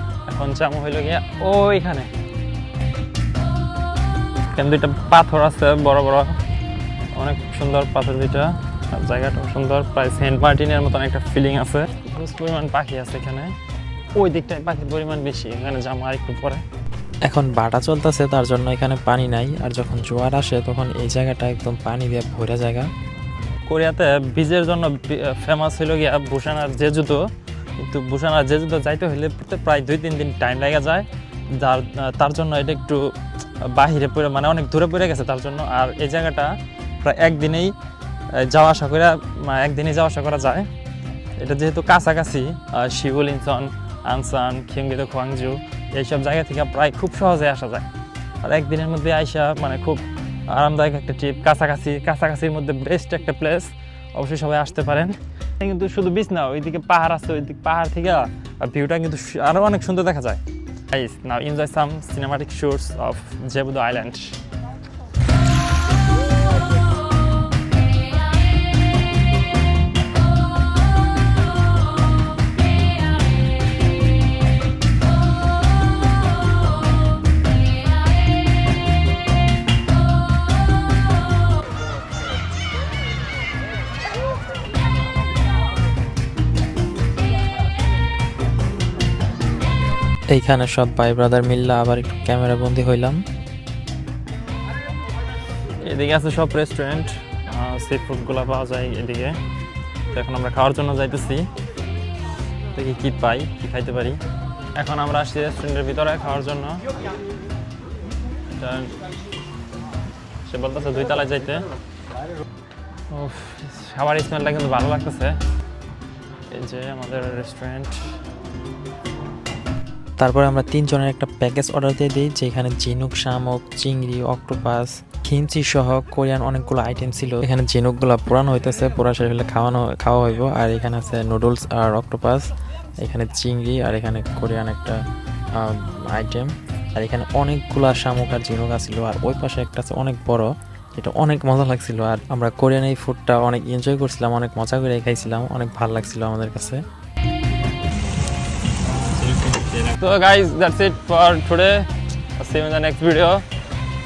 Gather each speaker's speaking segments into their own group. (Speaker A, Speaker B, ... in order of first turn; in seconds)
Speaker A: 0.2-2.1, 4.5-6.4, 7.1-13.5, 14.1-16.6, 23.6-37.7, 38.3-40.7, 41.4-47.9, 48.4-60.4, 60.9-64.4, 95.8-99.4, 100.1-101.5, 102.7-104.2, 104.7-106.8, 108.6-108.9, 110.5-111.6, 113.1-115.3, 116.5-118.0, 149.2-153.4
Speaker B: 17.2-22.9, 90.3-93.2, 120.2-146.8